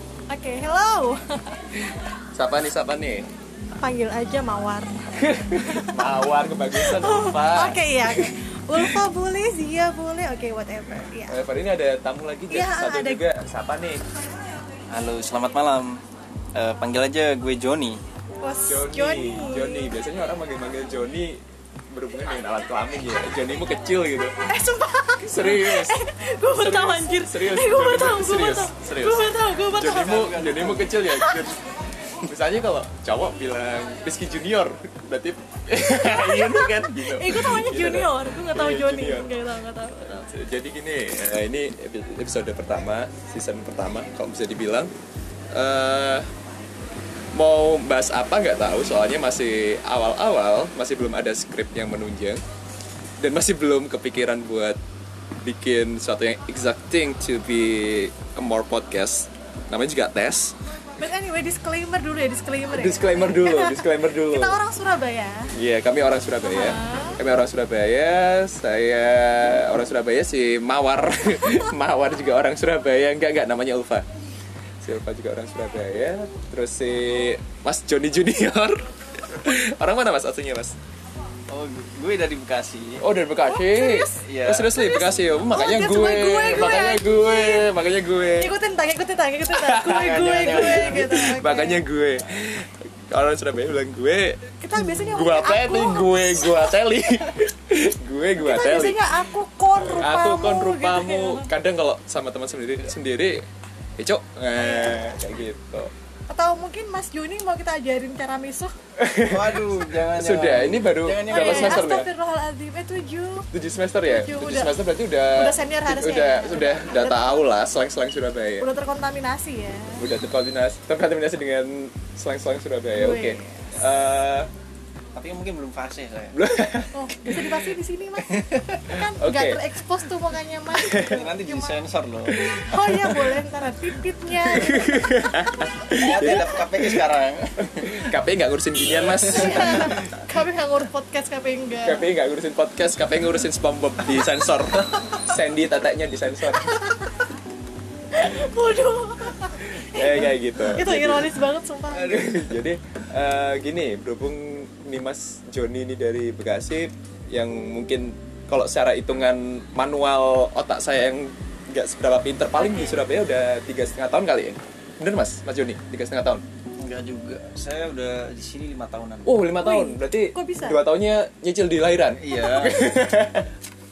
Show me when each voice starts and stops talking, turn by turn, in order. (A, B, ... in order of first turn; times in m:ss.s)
0:00.3-0:01.6 A
0:02.3-0:03.3 B
0:03.7-0:06.1 A
0:05.2-0:09.0 B
0:06.7-0:11.4 A
0:11.3-0:14.0 B
0:12.5-0:13.2 A
0:14.9-0:16.0 C
0:16.5-0:18.0 C
0:18.4-0:19.9 A
0:18.7-0:24.4 B
0:24.4-0:31.5 A
0:25.2-0:26.0 B
0:26.5-0:31.6 B
0:29.9-0:31.0 C
0:32.2-0:39.4 B
0:36.0-0:40.3 A
0:40.0-0:44.9 B
0:45.5-0:46.3 B
0:47.3-0:52.4 B
0:53.2-0:54.8 B
0:55.4-1:00.6 B
1:00.9-1:05.5 A
1:02.7-1:04.6 B
1:05.5-1:14.0 B
1:06.4-1:07.2 A
1:14.8-1:20.8 B
1:21.5-1:23.0 C
1:23.0-1:28.5 B
1:23.4-1:27.7 A
1:24.2-1:24.7 C
1:28.3-1:31.8 A
1:29.5-1:39.2 B
1:29.8-1:31.1 C
1:34.6-1:36.7 A
1:38.4-1:41.5 A
1:39.8-1:43.4 B
1:44.0-1:45.9 B
1:44.6-1:45.2 A
1:46.3-1:48.7 A
1:48.9-1:52.1 B
1:49.3-1:51.8 C
1:51.3-1:53.5 A
1:53.5-1:58.7 B
1:54.0-1:57.4 A
1:58.6-2:00.0 A
2:00.0-2:04.5 B
2:02.9-2:03.8 A
2:05.1-2:06.3 C
2:06.3-2:07.5 B
2:06.9-2:15.0 A
2:08.2-2:08.8 C
2:09.0-2:09.7 B
2:10.7-2:11.2 B
2:11.1-2:12.4 C
2:12.3-2:13.4 B
2:14.3-2:17.0 B
2:16.0-2:18.1 C
2:17.7-2:20.0 B
2:19.0-2:20.0 C
2:19.1-2:22.0 A
2:21.8-2:26.8 B
2:26.6-2:27.2 A
2:28.1-2:32.3 A
2:29.6-2:31.4 B
2:32.0-2:32.4 C
2:32.0-2:46.4 B
2:42.6-2:43.0 A
2:46.8-2:49.4 C
2:49.2-2:53.5 B
2:49.6-2:50.8 A
2:52.2-2:52.9 C